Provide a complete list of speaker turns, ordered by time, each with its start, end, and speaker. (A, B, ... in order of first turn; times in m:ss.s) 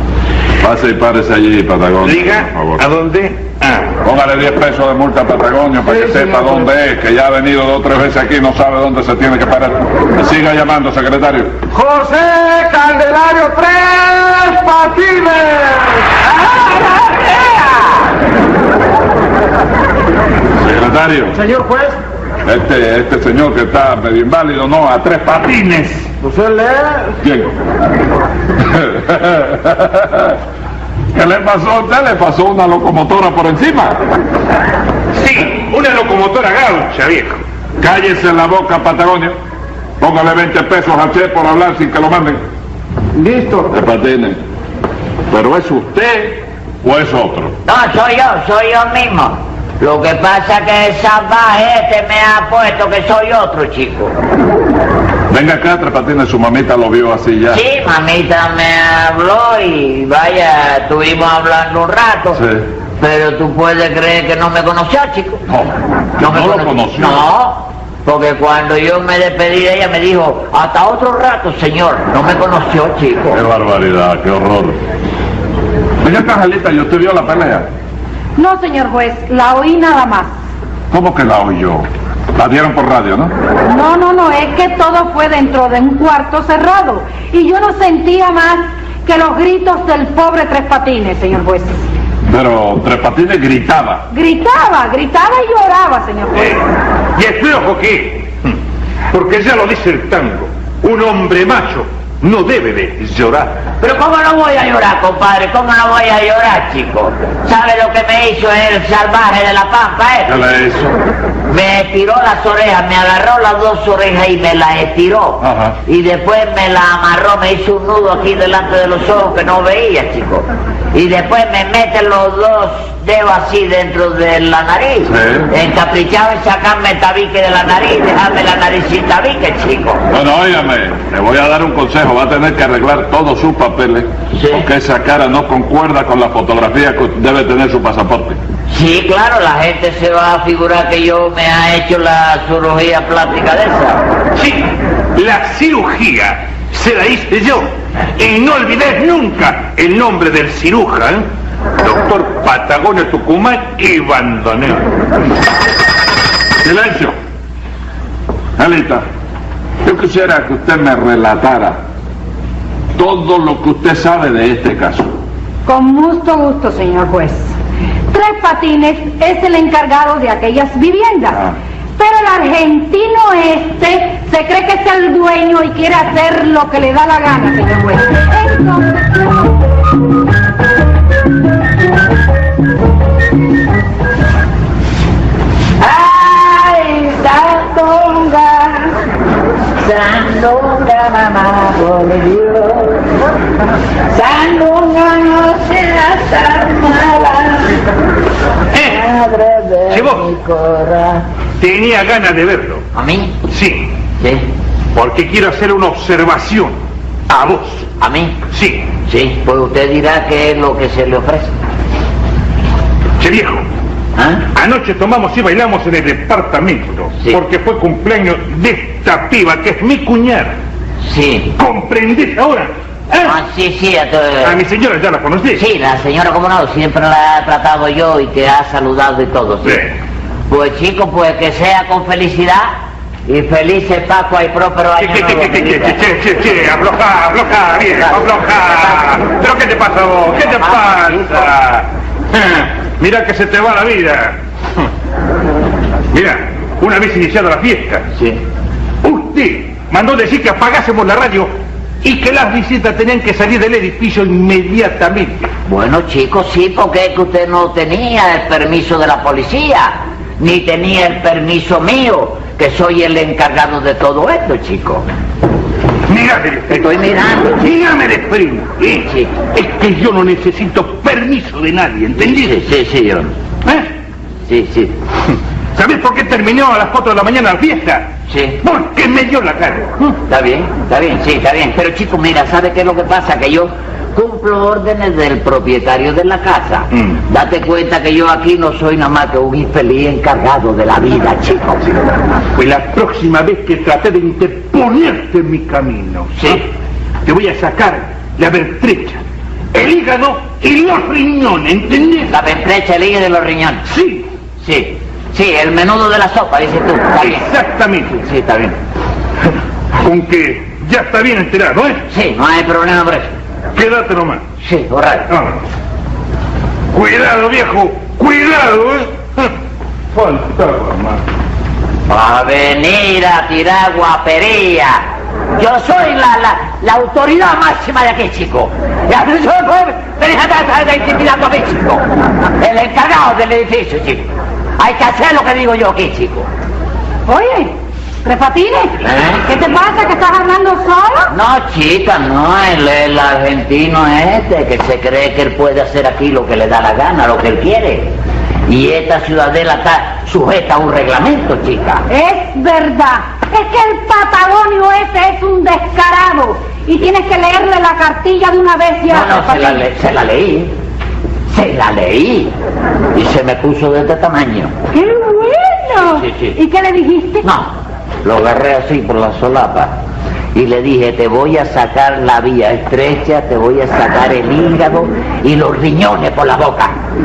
0:00.6-0:02.8 A
0:02.0-0:04.0 B
0:04.0-0:11.6 A
0:05.8-0:06.7 C
0:11.7-0:18.0 C
0:20.6-0:21.4 A
0:21.3-0:22.0 C
0:22.4-0:25.6 A
0:25.4-0:26.1 B
0:26.2-0:27.2 C
0:27.2-0:27.5 A
0:28.6-0:30.4 A
0:31.1-0:34.0 A
0:35.1-0:37.4 B
0:37.8-0:39.4 A
0:40.0-0:42.4 A
0:43.1-0:43.7 C
0:43.7-0:44.4 A
0:45.3-0:47.6 A
0:47.6-0:54.1 D
0:55.3-0:57.6 A
0:57.5-1:02.4 D
1:02.3-1:02.7 A
1:03.0-1:05.4 D
1:05.5-1:07.2 A
1:06.2-1:13.4 D
1:13.3-1:14.8 A
1:16.0-1:17.7 A
1:18.4-1:20.3 E
1:20.9-1:23.3 A
1:23.7-1:31.8 E
1:32.2-1:34.0 A
1:34.1-1:36.7 E
1:36.4-1:38.6 B
1:39.1-1:43.6 B
1:43.8-1:50.4 D
1:50.3-1:51.0 A
1:51.5-2:10.0 D
1:55.4-1:55.8 A
2:05.0-2:05.5 A
2:10.1-2:18.4 A
2:14.3-2:14.7 D
2:18.7-2:24.0 D
2:24.4-2:31.3 B
2:31.8-2:34.9 B
2:36.6-2:37.2 A
2:38.6-2:39.0 A
2:39.8-2:41.8 A
2:43.0-2:45.2 A
2:45.7-2:47.5 E
2:48.1-2:59.4 E
3:05.8-3:09.0 D
3:09.8-3:13.0 D
3:14.1-3:17.8 D
3:18.7-3:19.0 B
3:18.8-3:21.3 D
3:19.9-3:20.3 B
3:21.6-3:22.8 B
3:22.9-3:23.4 D
3:23.5-3:23.9 B
3:24.2-3:24.5 D
3:24.9-3:26.8 B
3:27.3-3:27.8 B
3:28.0-3:28.4 D
3:28.5-3:28.9 B
3:29.0-3:31.5 D
3:33.2-3:33.7 B
3:34.2-3:34.4 D
3:34.5-3:40.6 B
3:41.0-3:41.5 D
3:41.6-3:43.4 B
3:43.2-3:44.6 D
3:44.4-3:45.6 B
3:45.5-3:49.8 D
3:50.5-3:52.7 D
3:53.3-3:56.0 D
3:55.0-4:04.8 B
3:58.0-3:59.0 D
4:00.4-4:01.0 D
4:06.1-4:08.0 B
4:08.1-4:08.4 D
4:09.0-4:15.5 B
4:15.7-4:25.0 D
4:26.1-4:27.0 B
4:26.7-4:27.7 D
4:27.6-4:32.6 B
4:29.0-4:29.4 D
4:32.2-4:33.3 D
4:34.5-4:35.0 D
4:35.8-4:38.1 B
4:38.3-4:38.6 D
4:38.6-4:40.2 B
4:40.3-4:51.9 D
4:52.5-4:56.7 B
4:56.4-4:56.6 D
4:57.2-4:59.2 B
4:59.7-5:02.3 B
5:02.3-5:03.8 D
5:03.9-5:04.3 B
5:04.6-5:07.5 D
5:07.2-5:08.2 B
5:08.1-5:08.8 D
5:09.9-5:12.0 B
5:12.1-5:13.3 D
5:13.7-5:14.4 B
5:14.6-5:15.3 D
5:15.3-5:15.6 B
5:16.9-5:19.5 B
5:20.1-5:21.2 B
5:22.1-5:25.0 D
5:25.6-5:32.0 D
5:32.6-5:34.3 D
5:34.8-5:36.5 D
5:37.3-5:41.3 E
5:39.0-5:39.4 D
5:41.3-5:48.1 D
5:48.7-5:52.0 D
5:52.1-5:59.8 E
5:59.1-6:00.7 D
6:01.5-6:02.6 D
6:03.1-6:04.7 D
6:04.9-6:07.5 E
6:06.0-6:06.6 D
6:07.4-6:10.0 D
6:10.5-6:17.0 D